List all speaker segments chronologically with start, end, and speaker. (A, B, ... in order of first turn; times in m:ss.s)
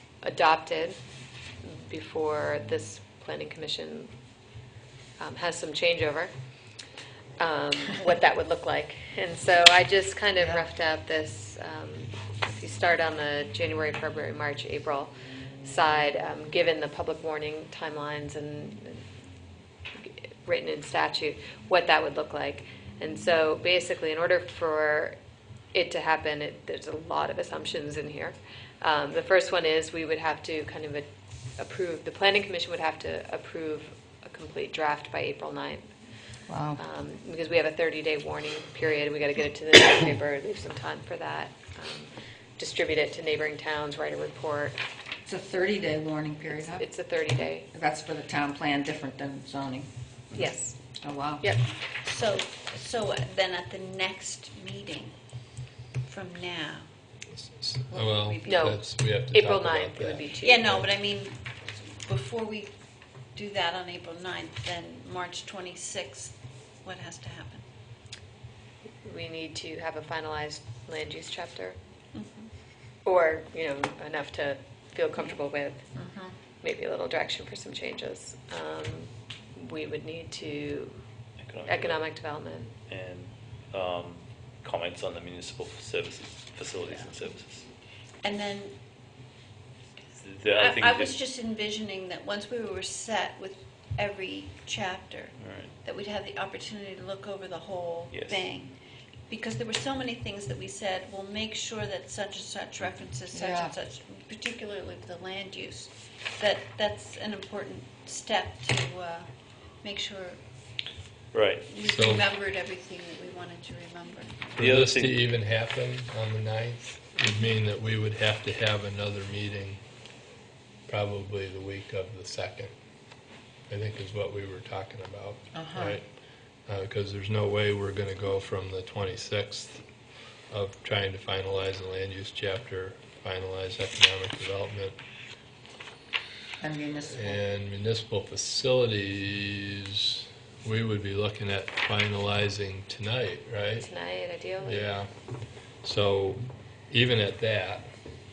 0:00.2-0:01.0 A
0:01.6-0:04.1 A
0:05.2-0:06.3 A
0:07.4-0:15.1 A
0:15.6-0:19.0 A
0:20.0-0:25.2 A
0:25.7-0:31.1 A
0:31.6-0:35.9 A
0:36.5-0:36.8 B
0:36.8-0:44.8 A
0:45.3-0:46.9 B
0:46.5-0:47.7 A
0:47.7-0:49.9 B
0:50.3-0:50.8 A
0:51.0-0:51.6 B
0:51.4-0:51.7 A
0:52.0-0:55.2 C
0:56.0-0:56.9 C
0:57.3-1:00.9 D
0:57.9-0:58.5 C
0:58.4-1:00.7 A
1:00.4-1:02.7 C
1:03.4-1:07.6 C
1:09.0-1:11.8 A
1:12.1-1:12.5 C
1:13.0-1:15.8 A
1:15.9-1:16.3 B
1:16.6-1:21.0 A
1:21.4-1:22.0 E
1:21.7-1:22.7 A
1:22.9-1:27.6 E
1:28.2-1:28.8 C
1:30.2-1:31.1 E
1:30.6-1:38.7 C
1:35.4-1:35.7 E
1:38.1-1:38.4 E
1:39.3-1:49.3 C
1:43.3-1:43.7 B
1:49.8-1:50.4 C
1:51.3-1:51.7 E
1:51.7-1:54.5 C
1:51.8-1:52.3 D
1:54.6-1:59.8 D
1:54.6-1:55.2 E
2:00.9-2:02.7 D
2:03.7-2:06.0 D
2:05.5-2:06.0 B
2:06.7-2:09.8 D
2:10.5-2:15.0 D
2:16.6-2:17.4 B
2:17.1-2:23.9 D
2:23.8-2:24.9 A
2:24.6-2:25.1 D
2:25.8-2:27.9 D